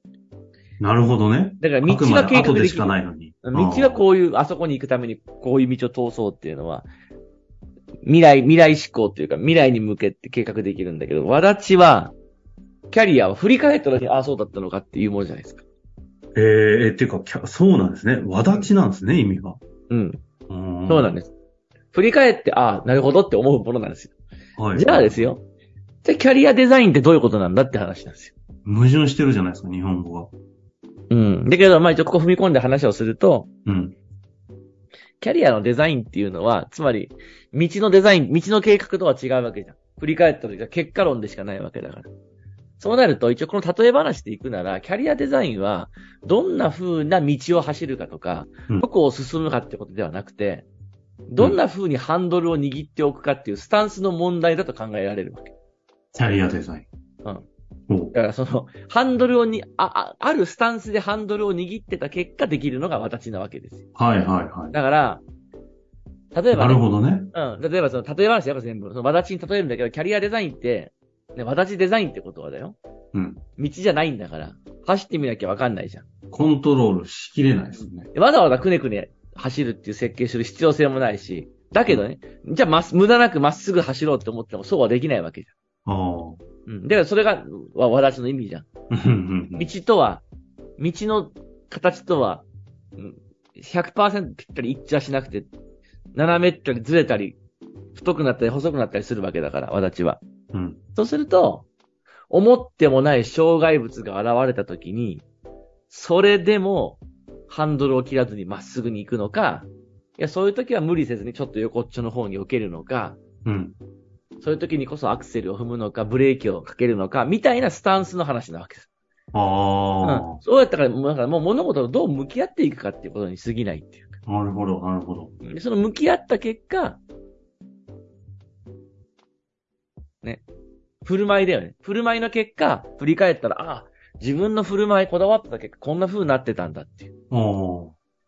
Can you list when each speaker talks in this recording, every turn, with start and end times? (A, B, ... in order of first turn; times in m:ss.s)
0:00.8-0:04.0 A
0:01.6-0:06.9 B
0:08.0-0:12.1 B
0:12.9-0:15.6 B
0:16.4-0:19.6 A
0:18.4-0:18.7 B
0:19.9-0:20.2 B
0:20.5-0:21.2 A
0:20.9-0:21.3 B
0:21.9-0:24.1 B
0:24.6-0:25.3 A
0:24.7-0:25.4 B
0:26.0-0:28.3 B
0:28.6-0:30.3 A
0:31.1-0:33.5 B
0:33.6-0:34.0 A
0:35.2-0:42.1 B
0:42.8-0:50.7 B
0:51.3-0:55.5 B
0:56.1-0:56.8 A
0:57.9-0:58.1 A
0:58.1-1:03.8 B
1:04.0-1:04.7 A
1:04.7-1:05.2 B
1:06.3-1:12.8 B
1:06.5-1:07.3 A
1:13.1-1:13.4 A
1:13.6-1:16.0 B
1:16.3-1:18.1 A
1:18.1-1:25.5 B
1:25.8-1:26.4 A
1:26.7-1:28.7 B
1:28.9-1:29.7 A
1:29.5-1:30.2 B
1:30.8-1:32.4 B
1:33.0-1:35.5 B
1:36.1-1:37.4 B
1:37.9-1:40.2 B
1:40.5-1:40.8 A
1:40.9-1:41.7 B
1:42.3-1:45.2 B
1:45.9-1:53.2 B
1:53.4-1:53.8 A
1:54.4-1:58.9 B
1:59.3-2:00.4 A
2:00.0-2:04.1 B
2:04.3-2:05.3 A
2:05.4-2:07.0 B
2:11.0-2:17.1 B
2:17.3-2:18.0 A